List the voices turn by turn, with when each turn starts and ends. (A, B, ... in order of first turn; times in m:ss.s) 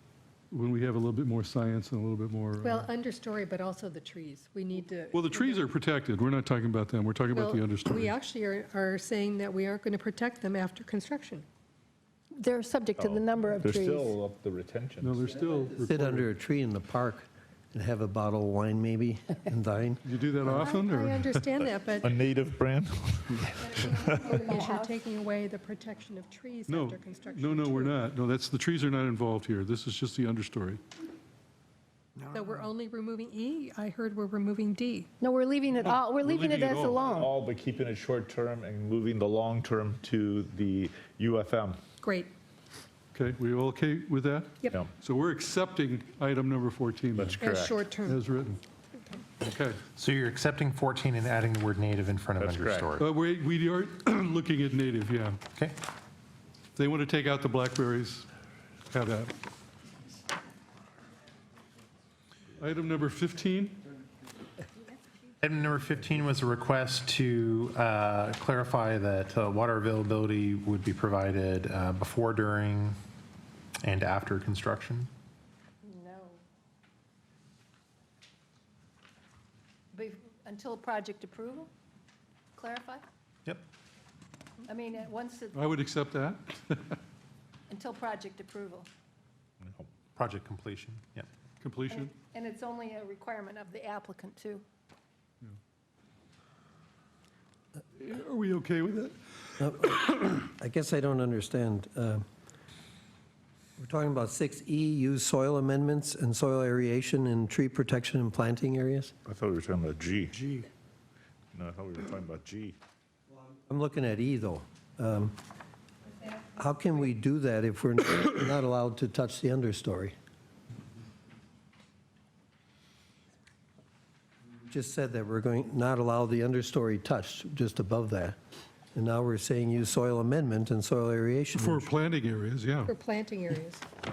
0:00.5-0:02.9 A
0:02.6-0:05.7 B
0:05.1-0:08.1 A
0:07.3-0:11.4 B
0:12.3-0:14.1 C
0:13.0-0:15.2 D
0:15.0-0:16.3 A
0:15.7-0:20.0 E
0:20.0-0:21.4 A
0:20.5-0:22.1 B
0:21.9-0:24.4 D
0:23.7-0:28.0 B
0:24.1-0:25.0 C
0:26.7-0:30.8 A
0:32.2-0:35.1 B
0:35.2-0:37.3 C
0:35.9-0:37.1 A
0:37.0-0:41.8 D
0:42.0-0:42.3 B
0:43.1-0:47.4 A
0:47.2-0:47.8 D
0:47.3-0:48.2 B
0:48.0-0:48.6 A
0:49.4-0:49.8 A
0:50.0-0:53.1 F
0:52.4-0:52.9 D
0:53.0-0:55.4 A
0:56.8-0:58.3 A
0:58.9-0:59.3 A
1:02.6-1:03.8 A
1:05.4-1:13.0 F
1:13.8-1:15.1 F
1:15.8-1:16.4 C
1:19.9-1:21.7 C
1:22.6-1:23.0 C
1:24.7-1:25.6 C
1:25.5-1:27.0 A
1:27.7-1:28.9 C
1:29.6-1:29.9 D
1:30.2-1:31.3 F
1:31.6-1:32.1 A
1:31.9-1:34.6 C
1:38.0-1:39.7 A
1:39.6-1:42.2 E
1:43.8-1:49.1 E
1:49.3-1:50.4 D
1:50.4-1:50.7 E
1:51.5-1:52.8 D
1:53.7-1:55.4 E
1:56.4-2:00.1 E
2:04.7-2:08.4 E
2:08.9-2:11.9 E
2:11.6-2:12.9 A
2:12.9-2:13.8 B